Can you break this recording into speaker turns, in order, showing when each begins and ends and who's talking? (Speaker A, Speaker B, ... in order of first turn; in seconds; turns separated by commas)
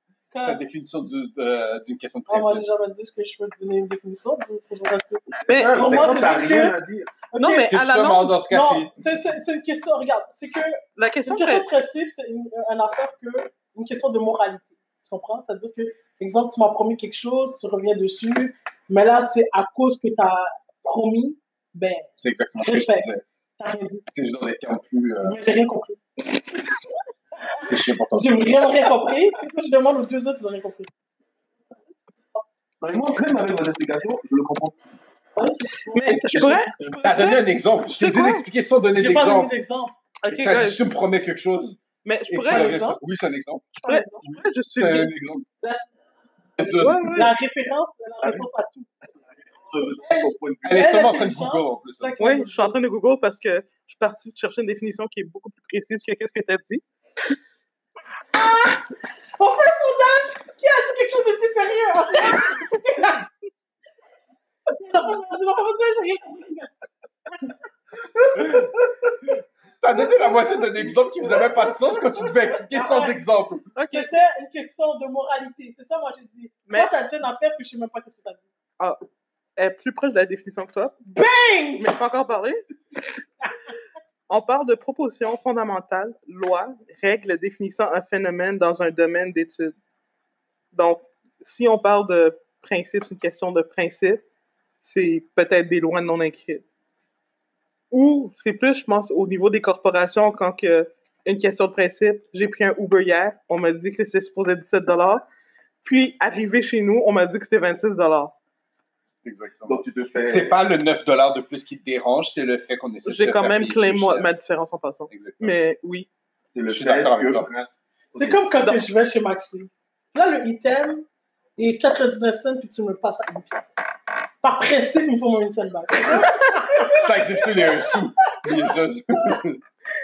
Speaker A: 0.3-0.6, Speaker B: 0.4-2.6, Speaker A: 2.3-6.7, Speaker C: 5.5-6.5, Speaker D: 5.5-7.1, Speaker A: 7.3-7.7, Speaker C: 7.3-8.4, Speaker B: 7.5-8.9, Speaker A: 8.5-24.1, Speaker C: 11.0-11.7, Speaker B: 22.2-23.2, Speaker B: 24.1-25.4, Speaker A: 25.2-26.0, Speaker B: 27.6-28.6, Speaker A: 28.1-30.9, Speaker D: 32.8-34.8, Speaker A: 35.4-36.5, Speaker C: 35.9-38.5, Speaker B: 36.1-39.5, Speaker A: 38.9-39.9, Speaker C: 40.2-40.8, Speaker B: 40.3-45.5, Speaker C: 42.0-43.0, Speaker A: 42.5-43.0, Speaker A: 43.8-44.3, Speaker C: 43.8-45.1, Speaker B: 46.6-47.3, Speaker C: 46.6-47.3, Speaker A: 47.0-48.9, Speaker D: 49.4-51.0, Speaker A: 49.9-52.8, Speaker B: 50.6-52.1, Speaker C: 52.2-56.8, Speaker A: 58.3-58.8, Speaker A: 59.4-63.2, Speaker A: 64.8-66.7, Speaker B: 68.3-68.7, Speaker B: 69.8-73.7, Speaker A: 70.2-70.9, Speaker A: 72.7-73.2, Speaker C: 73.7-74.1, Speaker A: 73.9-78.5, Speaker C: 79.6-81.0, Speaker A: 81.1-81.9, Speaker C: 81.8-82.6, Speaker C: 84.3-89.7, Speaker C: 90.7-94.2, Speaker C: 94.8-96.6, Speaker C: 97.9-105.2, Speaker C: 105.8-108.3, Speaker B: 109.2-114.3, Speaker D: 109.7-110.5, Speaker C: 113.0-116.1, Speaker B: 115.1-115.5, Speaker D: 116.5-118.4, Speaker B: 116.7-117.5, Speaker A: 118.2-121.0, Speaker A: 121.6-126.9, Speaker B: 126.7-129.6